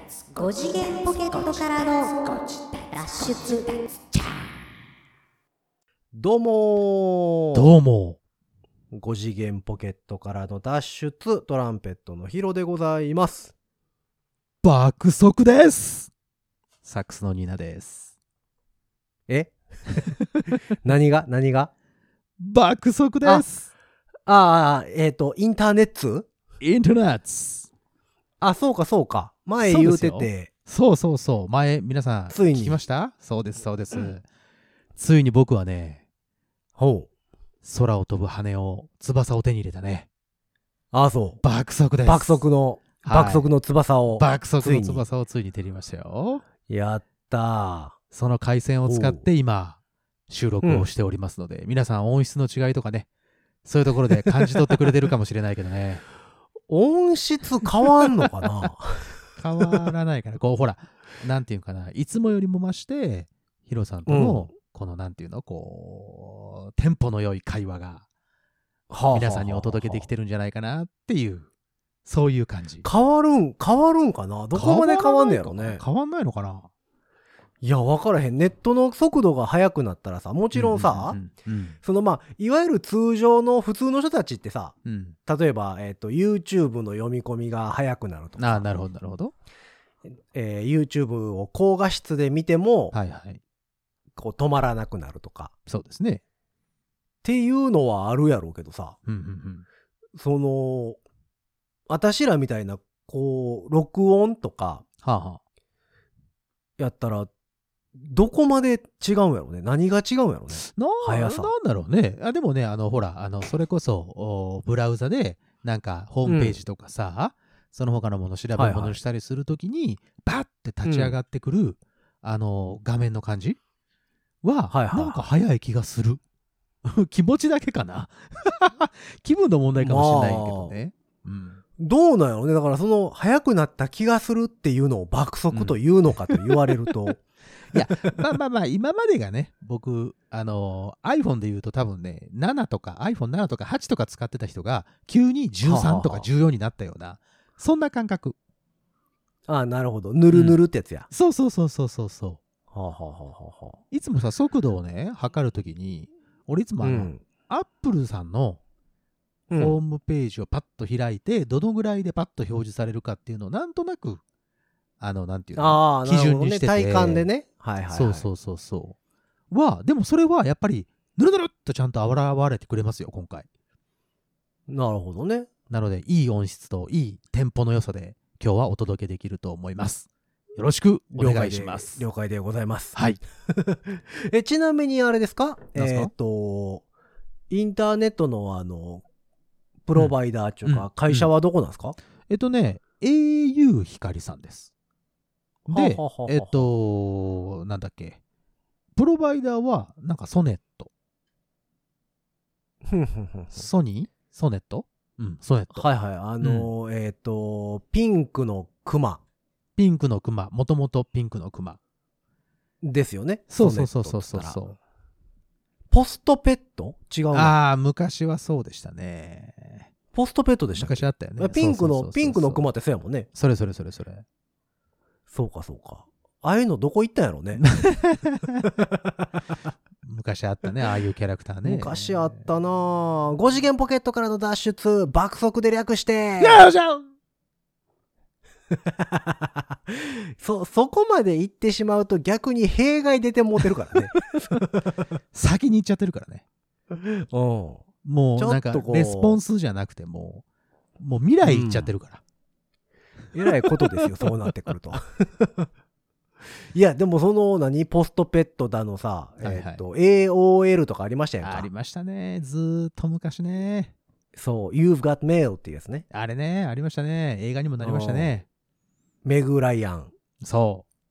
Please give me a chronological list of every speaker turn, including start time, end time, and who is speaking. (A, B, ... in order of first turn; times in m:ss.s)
0:00.3-0:04.4 A
0:06.1-0:07.7 B
0:07.5-0:08.2 C
0:08.9-0:13.5 B
0:14.6-0:16.1 C
0:16.8-0:18.1 C
0:19.3-0:19.6 B
0:20.8-0:21.7 B
0:22.4-0:23.7 C
0:24.3-0:26.3 B
0:26.6-0:27.7 C
0:28.4-0:30.5 B
0:29.6-0:34.2 C
0:32.3-0:32.8 B
0:35.0-0:36.0 C
0:36.8-0:37.1 B
0:37.6-0:40.1 C
0:40.9-0:41.4 B
0:41.4-0:42.4 C
0:42.0-0:45.0 B
0:43.0-0:43.5 C
0:44.2-0:46.4 C
0:46.7-0:48.0 B
0:48.1-0:49.8 C
0:48.9-0:49.2 B
0:50.3-0:53.1 C
0:50.6-0:50.9 B
0:53.6-0:56.0 C
0:56.7-0:59.1 B
0:59.4-1:08.1 C
1:04.1-1:04.5 B
1:08.9-1:10.1 B
1:09.1-1:11.5 C
1:12.0-1:12.9 C
1:12.8-1:15.8 B
1:14.5-1:16.7 C
1:17.6-1:21.2 B
1:20.5-1:21.8 C
1:21.8-1:28.6 B
1:24.8-1:25.2 C
1:28.4-1:29.3 C
1:30.2-1:33.0 B
1:32.9-1:33.4 C
1:34.2-1:35.5 B
1:35.7-1:36.2 C
1:37.2-1:39.0 B
1:39.1-1:39.7 C
1:40.2-1:41.0 B
1:41.9-1:44.8 B
1:45.0-1:45.4 C
1:46.8-1:47.3 B
1:48.0-1:51.5 B
1:50.5-2:03.6 C
1:56.3-1:56.6 B
1:58.6-1:59.0 B
2:00.8-2:01.2 B
2:04.4-2:06.2 C
2:04.7-2:05.2 B
2:06.8-2:11.6 C
2:09.8-2:10.8 B
2:11.8-2:17.2 B
2:15.5-2:16.9 C
2:17.7-2:28.4 C
2:25.6-2:26.3 B
2:29.5-2:31.1 B
2:30.3-2:30.6 C
2:31.1-2:32.4 C
2:32.7-2:33.8 B
2:33.9-2:38.6 C
2:36.8-2:37.2 B
2:39.5-2:39.8 B
2:39.6-2:44.2 C
2:45.0-2:47.3 C
2:45.6-2:48.3 B
2:47.9-2:49.0 C
2:49.5-2:53.5 C
2:54.7-2:55.5 B
2:55.7-3:02.0 C
3:01.1-3:03.0 B
3:03.0-3:03.2 C
3:03.5-3:06.8 B
3:05.8-3:06.1 C
3:07.5-3:09.0 B
3:09.9-3:12.0 B
3:10.0-3:11.3 C
3:12.3-3:14.7 C
3:15.7-3:16.7 B
3:15.7-3:18.2 C
3:19.0-3:20.9 C
3:22.9-3:23.7 B
3:23.5-3:25.9 C
3:25.8-3:29.2 B
3:26.4-3:26.7 C
3:29.8-3:31.8 C
3:32.8-3:34.6 B
3:33.5-3:34.8 C
3:35.9-3:37.6 B
3:37.3-3:39.9 C
3:40.1-3:43.3 B
3:40.8-3:42.6 C
3:43.3-3:44.2 C
3:45.3-3:47.6 B
3:47.6-3:48.7 C
3:48.8-3:49.1 B
3:50.0-3:52.5 C
3:51.6-3:56.6 B
3:56.4-3:57.1 C
3:58.8-4:04.9 B
4:05.3-4:06.4 C
4:06.9-4:07.8 B
4:08.0-4:10.4 C
4:08.4-4:09.4 B
4:11.0-4:12.2 C
4:11.4-4:11.9 B
4:13.3-4:15.7 B
4:13.5-4:14.3 C
4:16.7-4:21.7 B
4:19.4-4:19.8 C
4:21.4-4:23.9 C
4:24.4-4:26.1 B
4:26.1-4:28.5 C
4:27.8-4:28.3 B
4:29.2-4:30.1 B
4:30.4-4:30.9 C